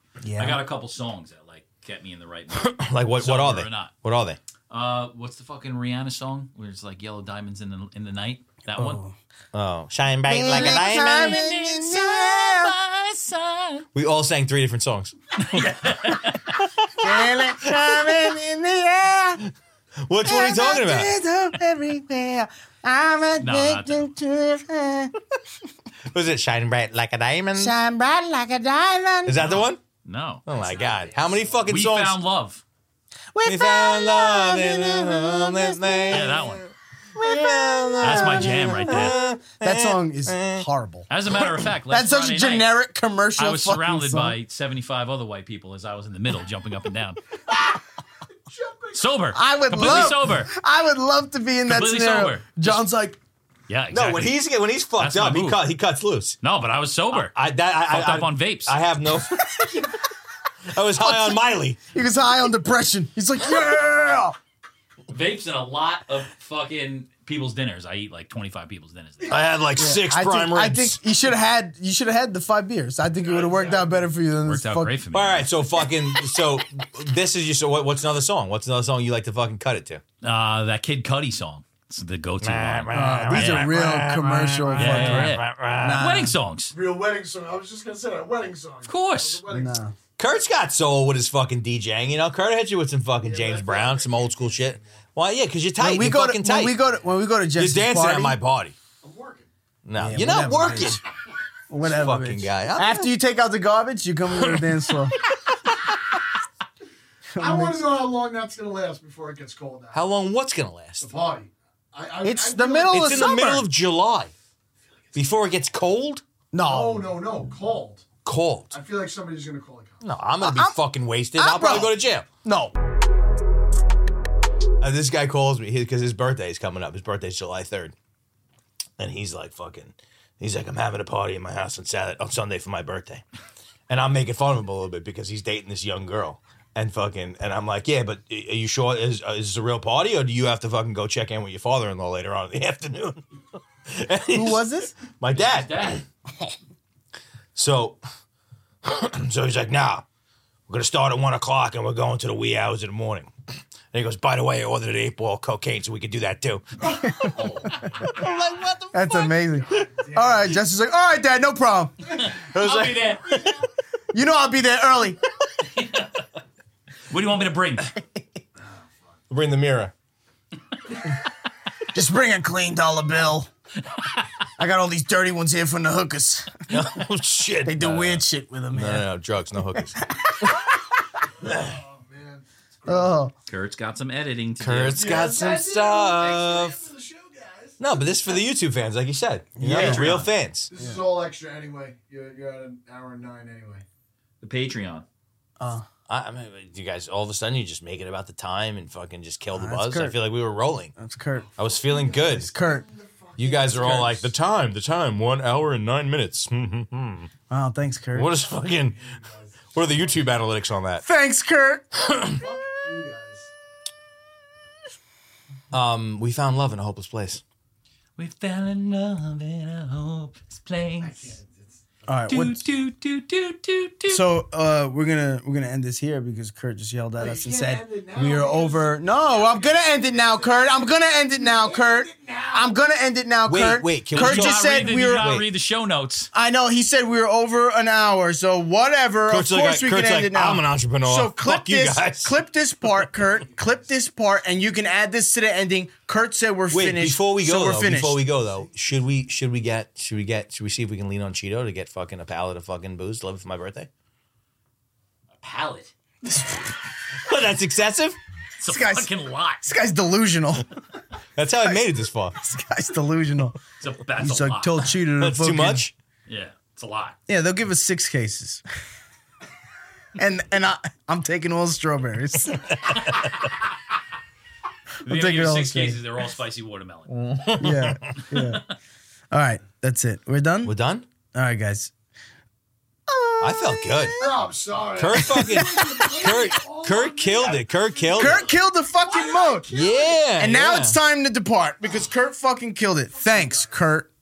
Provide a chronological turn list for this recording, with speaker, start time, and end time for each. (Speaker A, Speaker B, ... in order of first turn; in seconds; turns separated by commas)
Speaker A: 0.2-0.6, Speaker B: 0.4-3.9, Speaker C: 2.6-4.4, Speaker B: 4.7-9.0, Speaker A: 8.8-9.1, Speaker C: 9.5-11.4, Speaker A: 10.3-12.8, Speaker B: 10.5-13.9, Speaker C: 13.9-15.8, Speaker B: 15.4-16.6, Speaker C: 16.5-18.3, Speaker A: 16.9-19.4, Speaker C: 20.1-21.1, Speaker A: 20.2-25.1, Speaker B: 23.4-24.1, Speaker C: 26.1-27.7, Speaker A: 27.6-29.6, Speaker C: 29.2-29.8, Speaker B: 29.4-30.4, Speaker C: 30.5-32.2, Speaker D: 30.5-31.7, Speaker B: 31.7-32.6, Speaker A: 33.3-36.4, Speaker C: 33.5-40.7, Speaker B: 36.1-36.6, Speaker A: 37.2-41.1, Speaker B: 38.0-39.2, Speaker B: 41.1-42.7, Speaker A: 41.9-44.4, Speaker B: 43.4-47.2, Speaker D: 48.5-49.1, Speaker B: 48.9-50.5, Speaker A: 49.3-53.2, Speaker B: 51.7-52.9, Speaker B: 53.7-54.4, Speaker C: 53.9-56.4, Speaker B: 55.0-55.6, Speaker B: 56.4-57.3, Speaker C: 57.1-59.8, Speaker B: 57.9-58.8, Speaker A: 59.4-59.9, Speaker C: 60.7-61.8, Speaker A: 61.0-64.4, Speaker B: 65.1-69.4, Speaker C: 69.3-71.0, Speaker A: 69.8-75.0, Speaker D: 73.2-74.1, Speaker B: 74.5-75.5, Speaker C: 75.1-80.0, Speaker B: 80.2-83.7, Speaker C: 82.4-86.0, Speaker A: 82.9-86.4, Speaker B: 84.8-86.8, Speaker D: 86.7-89.8, Speaker B: 88.8-89.4, Speaker A: 89.5-90.0, Speaker C: 90.2-96.8, Speaker D: 93.2-95.0, Speaker A: 95.8-98.4, Speaker C: 97.6-98.8, Speaker D: 99.0-99.5, Speaker C: 99.9-101.0, Speaker A: 100.0-101.0, Speaker A: 101.7-105.2, Speaker C: 101.8-103.1, Speaker A: 107.3-107.9, Speaker D: 107.4-110.0, Speaker C: 109.9-111.1, Speaker D: 111.0-113.3, Speaker A: 112.2-113.7, Speaker C: 112.9-114.3, Speaker C: 115.2-116.2, Speaker A: 116.5-117.2, Speaker D: 116.7-118.1, Speaker C: 118.2-118.7, Speaker D: 118.7-120.1, Speaker C: 120.0-122.3, Speaker A: 120.4-120.8, Speaker A: 121.4-122.7, Speaker C: 124.8-127.9, Speaker C: 129.0-133.2, Speaker C: 133.9-143.2, Speaker C: 143.9-144.6, Speaker A: 144.3-144.9, Speaker C: 145.2-146.0, Speaker B: 145.3-146.0, Speaker C: 147.6-148.0, Speaker C: 148.8-150.1, Speaker C: 150.7-156.9, Speaker A: 157.0-157.3, Speaker D: 157.3-157.7, Speaker C: 158.0-159.3, Speaker A: 158.9-162.1, Speaker D: 159.6-160.5, Speaker B: 162.2-163.5, Speaker C: 162.4-163.4, Speaker A: 164.1-165.2, Speaker B: 165.6-166.2, Speaker B: 167.1-167.9, Speaker C: 169.3-169.9, Speaker A: 171.9-173.5, Speaker A: 174.6-176.6, Speaker C: 176.7-180.2, Speaker A: 177.6-179.1, Speaker A: 179.7-180.6, Speaker C: 181.4-181.8, Speaker D: 181.4-183.2, Speaker A: 182.9-183.3, Speaker B: 183.5-185.4, Speaker C: 184.6-186.8, Speaker D: 184.9-187.8, Speaker C: 187.8-190.7, Speaker A: 189.6-190.2, Speaker B: 189.7-190.3, Speaker D: 190.7-193.8, Speaker A: 190.7-191.0, Speaker B: 194.4-195.1, Speaker A: 195.6-195.9, Speaker C: 196.1-200.9, Speaker A: 199.6-200.2, Speaker A: 201.0-201.5, Speaker D: 201.4-204.2, Speaker C: 201.6-202.5, Speaker A: 202.4-202.9, Speaker C: 203.4-207.3, Speaker A: 203.9-204.2, Speaker A: 207.5-208.3, Speaker C: 208.1-209.0, Speaker D: 208.5-210.3, Speaker C: 209.7-211.0, Speaker A: 211.0-211.9, Speaker C: 212.0-212.4, Speaker D: 212.2-213.5, Speaker C: 215.7-217.4, Speaker B: 218.2-221.4, Speaker D: 221.0-222.0, Speaker A: 222.1-222.7, Speaker B: 222.3-224.2, Speaker A: 224.1-235.3, Speaker D: 227.2-232.8, Speaker C: 233.5-235.5, Speaker B: 234.1-236.3, Speaker A: 236.3-248.2, Speaker C: 239.3-242.4, Speaker D: 243.5-243.8, Speaker C: 246.7-253.9, Speaker D: 248.0-248.7, Speaker B: 255.4-255.9, Speaker A: 256.3-256.7, Speaker C: 257.2-258.2, Speaker B: 258.6-259.7, Speaker A: 258.7-259.1, Speaker A: 259.6-260.7, Speaker C: 261.4-262.4, Speaker A: 262.4-263.6, Speaker B: 263.8-264.9, Speaker A: 264.2-265.9, Speaker C: 265.2-265.9, Speaker B: 266.3-267.2, Speaker A: 267.3-268.6, Speaker A: 270.2-272.7, Speaker C: 272.8-273.3, Speaker B: 275.0-277.1, Speaker A: 275.1-276.0, Speaker C: 277.1-278.1, Speaker A: 277.6-278.6, Speaker B: 278.3-278.6, Speaker A: 279.3-280.7, Speaker C: 280.6-281.1, Speaker A: 281.3-281.9, Speaker A: 283.1-284.4, Speaker C: 283.4-284.2, Speaker D: 284.2-290.2, Speaker C: 285.0-288.5, Speaker A: 285.1-286.5, Speaker A: 288.1-289.7, Speaker C: 289.7-291.0, Speaker A: 290.4-294.1, Speaker D: 293.1-293.9